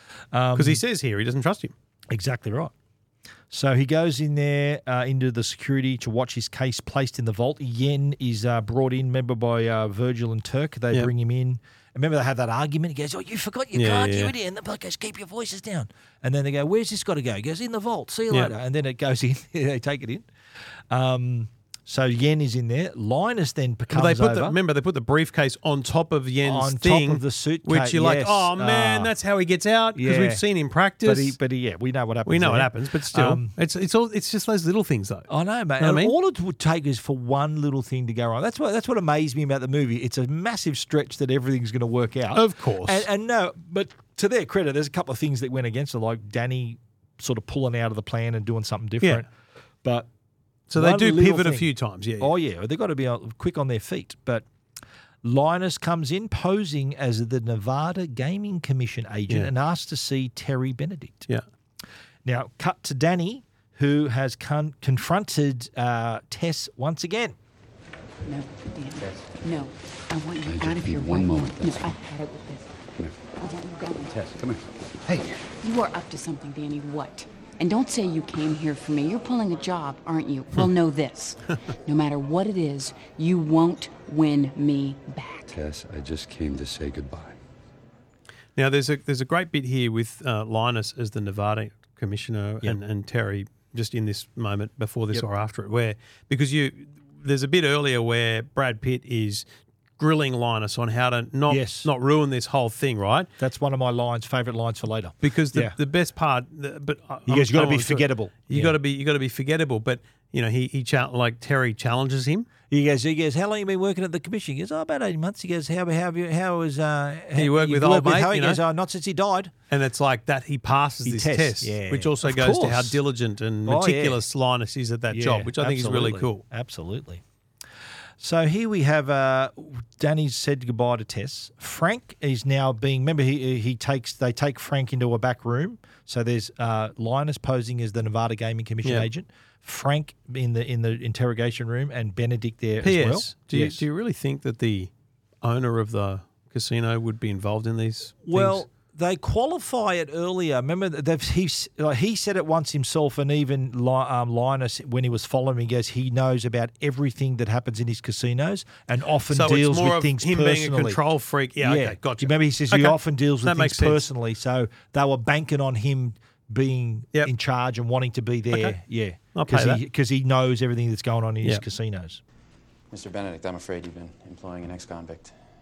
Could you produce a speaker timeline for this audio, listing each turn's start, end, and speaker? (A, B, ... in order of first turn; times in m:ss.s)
0:00.3-0:00.8 A
0:00.5-0:01.7 B
0:02.1-0:02.7 A
0:03.5-0:20.3 A
0:13.7-0:14.3 B
0:20.9-0:24.6 A
0:23.9-0:31.4 B
0:26.4-0:29.1 A
0:29.9-0:30.4 A
0:31.0-0:33.5 A
0:32.2-0:35.3 B
0:35.3-0:49.3 A
0:35.8-0:36.1 B
0:42.3-0:43.0 B
0:49.8-0:50.1 A
0:50.7-0:52.3 B
0:50.7-0:51.7 A
0:52.2-0:54.4 A
0:55.2-1:01.3 A
1:02.2-1:07.4 A
1:08.2-1:12.7 C
1:10.4-1:12.0 D
1:13.4-1:14.3 C
1:14.1-1:15.3 D
1:15.6-1:25.5 C
1:25.5-1:27.4 D
1:28.6-1:39.4 B
1:40.0-1:43.3 B
1:41.5-1:41.9 A
1:43.4-1:45.7 A
1:45.2-1:52.5 B
1:47.3-1:48.8 A
1:52.7-1:59.5 A
1:57.3-1:58.6 B
1:59.7-2:06.4 B
2:01.0-2:03.0 A
2:03.6-2:04.2 A
2:05.1-2:07.2 A
2:08.2-2:23.8 A
2:18.8-2:19.1 B
2:22.8-2:24.9 B
2:25.4-2:28.6 B
2:28.2-2:41.0 A
2:39.3-2:44.1 B
2:41.6-2:52.2 A
2:48.5-2:48.8 B
2:49.3-2:49.8 B
2:52.9-2:55.4 E